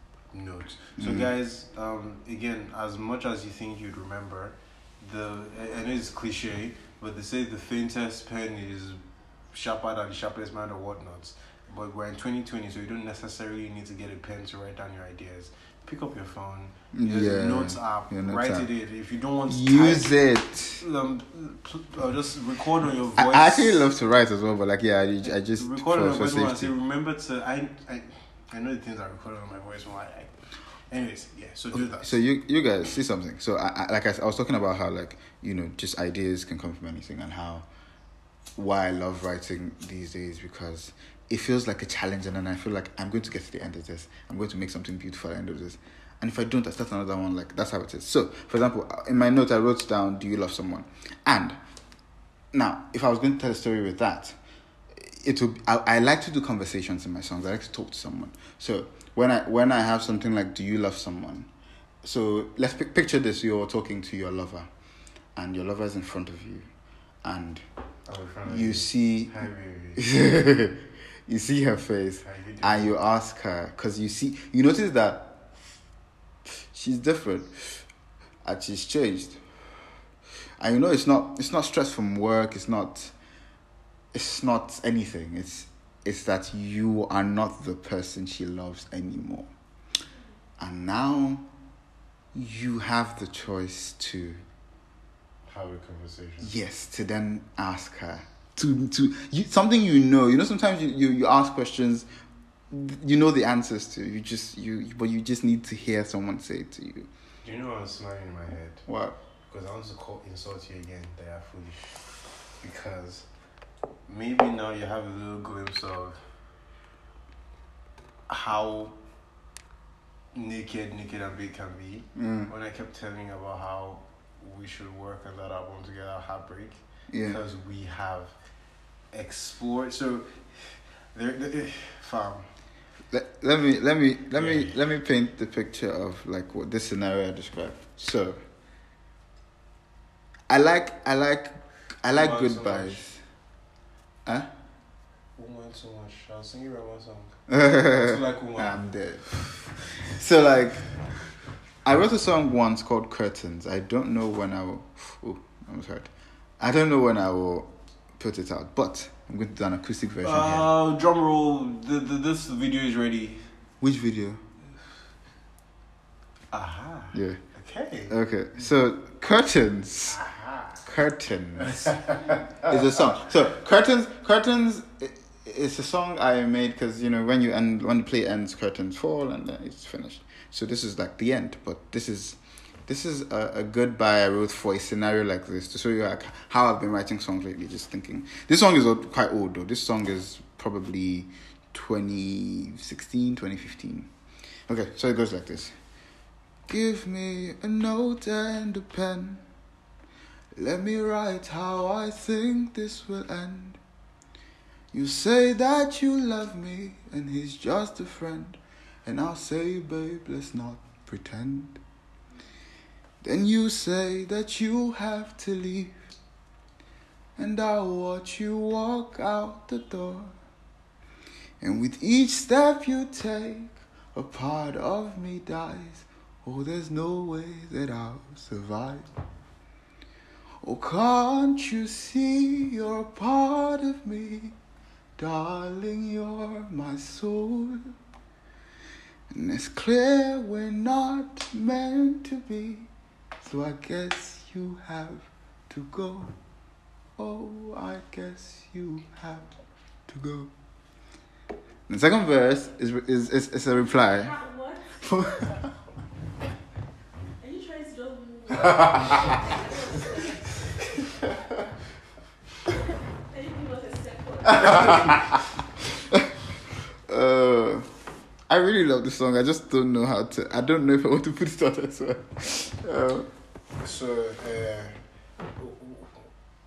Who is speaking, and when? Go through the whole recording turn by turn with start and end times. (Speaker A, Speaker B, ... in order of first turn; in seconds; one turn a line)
Speaker A: 0.3-20.2
Speaker B: 1.0-1.3
Speaker B: 16.9-18.7
Speaker B: 19.5-20.8
Speaker A: 20.8-23.9
Speaker B: 23.2-26.7
Speaker A: 25.2-32.2
Speaker B: 31.7-37.6
Speaker B: 38.5-51.6
Speaker B: 52.5-54.4
Speaker B: 54.9-61.5
Speaker B: 62.0-64.7
Speaker B: 65.3-66.7
Speaker B: 67.2-67.6
Speaker A: 68.1-70.1
Speaker B: 68.5-69.3
Speaker B: 70.0-75.5
Speaker A: 72.2-73.0
Speaker B: 76.5-77.8
Speaker B: 78.4-79.4
Speaker B: 80.6-83.1
Speaker B: 84.1-89.5
Speaker B: 90.6-91.5
Speaker B: 92.3-94.4
Speaker A: 95.5-96.5
Speaker B: 96.4-102.1
Speaker B: 102.7-107.1
Speaker A: 107.4-108.8
Speaker B: 108.9-109.2
Speaker A: 109.5-112.0
Speaker A: 112.6-113.3
Speaker A: 114.1-116.2
Speaker A: 118.3-119.0
Speaker A: 120.3-128.4
Speaker B: 122.2-122.5
Speaker B: 127.1-127.4
Speaker A: 129.1-132.5
Speaker B: 133.1-138.4
Speaker A: 134.3-134.7
Speaker B: 140.5-143.2
Speaker A: 142.1-143.1
Speaker A: 145.3-149.7
Speaker B: 147.5-149.4
Speaker B: 150.2-150.8
Speaker B: 151.8-160.7
Speaker A: 160.2-163.5
Speaker B: 163.8-164.4
Speaker A: 166.5-168.1
Speaker B: 167.1-167.4
Speaker B: 168.1-170.2
Speaker A: 170.1-170.8
Speaker B: 170.8-194.1
Speaker A: 171.6-172.7
Speaker B: 194.7-195.7
Speaker B: 196.7-199.4
Speaker B: 200.5-203.8
Speaker B: 204.9-211.8
Speaker B: 213.2-216.0
Speaker B: 217.4-220.3
Speaker B: 221.6-229.1
Speaker B: 230.6-234.5
Speaker B: 235.2-237.9
Speaker B: 239.3-242.9
Speaker B: 243.4-246.3
Speaker B: 247.2-250.5
Speaker B: 251.9-254.4
Speaker C: 254.1-255.6
Speaker B: 255.0-255.6
Speaker C: 257.4-260.7
Speaker C: 263.2-265.2
Speaker A: 264.6-265.1
Speaker B: 267.1-267.9
Speaker B: 268.5-273.3
Speaker A: 273.8-275.0
Speaker A: 275.6-276.3